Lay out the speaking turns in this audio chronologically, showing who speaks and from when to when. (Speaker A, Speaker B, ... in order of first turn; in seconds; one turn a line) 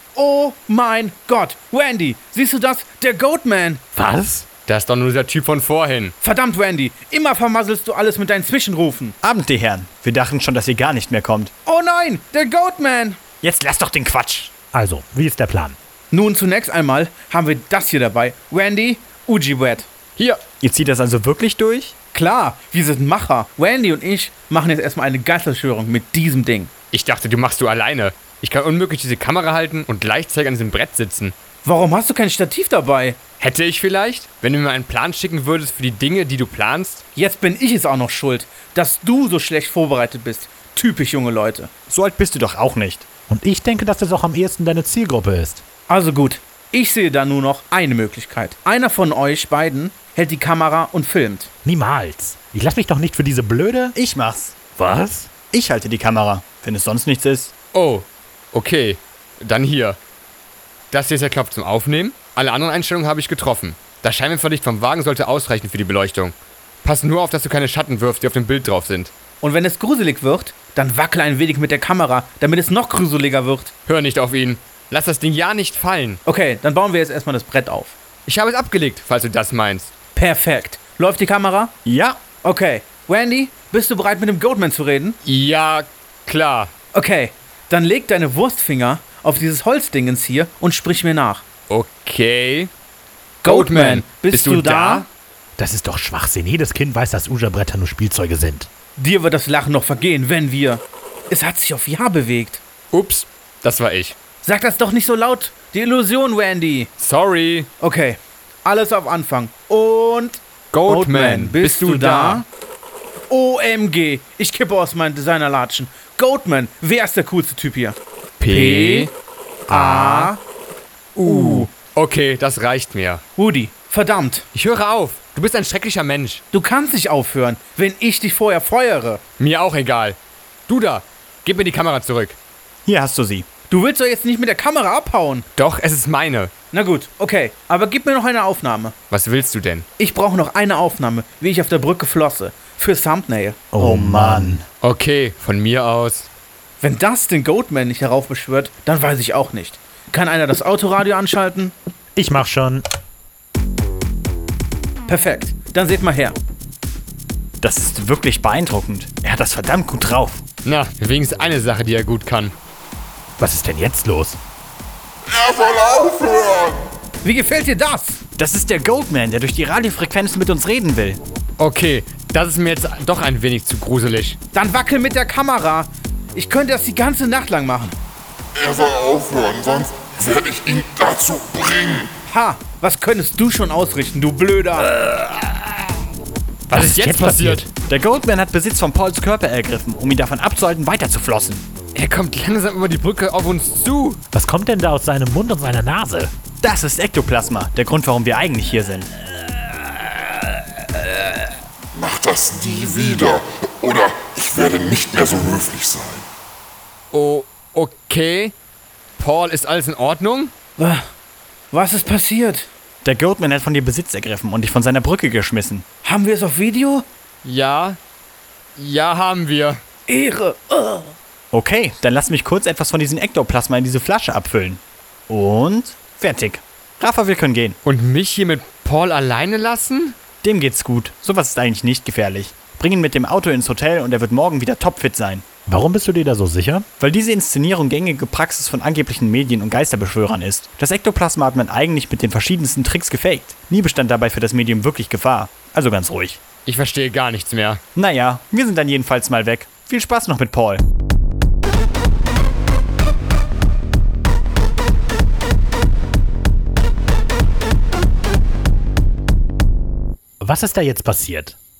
Speaker A: 0.1-3.8
Speaker B: 3.9-4.5
Speaker C: 4.7-6.1
Speaker A: 6.2-9.1
Speaker D: 9.2-11.5
Speaker A: 11.7-13.2
Speaker D: 13.4-14.5
Speaker B: 14.7-15.8
Speaker A: 16.1-19.9
Speaker D: 20.6-21.9
Speaker A: 22.1-26.7
Speaker C: 26.9-31.3
Speaker A: 31.6-33.2
Speaker C: 33.4-37.0
Speaker A: 37.1-41.7
Speaker D: 41.9-43.1
Speaker B: 43.3-45.6
Speaker A: 45.9-51.5
Speaker B: 51.6-53.9
Speaker D: 53.9-54.6
Speaker B: 54.8-55.3
Speaker D: 55.4-57.5
Speaker C: 57.7-60.0
Speaker C: 60.9-69.1
Speaker A: 69.4-73.7
Speaker C: 73.9-76.2
Speaker A: 76.2-78.0
Speaker C: 78.3-79.9
Speaker A: 80.1-81.7
Speaker D: 81.8-82.2
Speaker A: 82.4-85.2
Speaker C: 85.2-86.7
Speaker A: 86.9-91.4
Speaker C: 91.7-92.7
Speaker A: 93.4-95.1
Speaker C: 93.4-95.1
Speaker B: 95.6-98.7
Speaker A: 99.0-102.6
Speaker C: 102.9-104.2
Speaker A: 104.4-106.9
Speaker C: 107.0-107.7
Speaker A: 107.8-112.5
Speaker C: 110.7-112.4
Speaker A: 113.3-118.0
Speaker C: 118.4-119.1
Speaker A: 118.5-119.1
Speaker C: 119.7-120.3
Speaker A: 119.7-120.4
Speaker C: 121.2-123.2
Speaker A: 121.2-121.7
Speaker A: 123.4-124.5
Speaker C: 124.5-126.4
Speaker A: 126.5-129.2
Speaker C: 129.4-132.4
Speaker D: 132.8-133.5
Speaker A: 133.7-135.4
Speaker C: 135.6-136.5
Speaker A: 136.7-138.9
Speaker C: 139.1-139.8
Speaker A: 140.0-143.6
Speaker B: 143.7-144.6
Speaker D: 143.8-144.6
Speaker C: 144.8-146.3
Speaker A: 146.8-151.7
Speaker B: 152.2-152.8
Speaker A: 155.1-156.3
Speaker D: 157.6-160.4
Speaker C: 160.6-162.5
Speaker B: 163.4-164.4
Speaker E: 165.4-166.8
Speaker A: 167.2-168.2
Speaker D: 168.4-171.2
Speaker C: 171.6-174.4
Speaker A: 174.5-178.0
Speaker E: 178.6-182.0
Speaker A: 182.2-184.9
Speaker C: 184.9-185.7
Speaker C: 186.7-187.7
Speaker B: 186.7-187.7
Speaker D: 187.8-191.7
Speaker C: 191.9-194.2
Speaker B: 194.3-196.3
Speaker D: 196.6-199.1
Speaker C: 200.9-201.4
Speaker E: 202.1-203.1
Speaker C: 202.3-203.3
Speaker E: 203.8-206.2
Speaker C: 207.1-208.5
Speaker C: 209.2-210.5
Speaker A: 210.8-211.0
Speaker A: 211.7-212.7
Speaker D: 213.0-215.8
Speaker A: 216.0-217.1
Speaker C: 217.4-218.0
Speaker C: 218.8-219.8
Speaker A: 220.1-221.1
Speaker D: 221.5-227.8
Speaker C: 227.8-230.2
Speaker D: 230.4-235.4
Speaker B: 235.7-236.8
Speaker D: 237.0-246.4
Speaker C: 246.7-247.8
Speaker D: 247.9-250.8
Speaker B: 260.4-261.6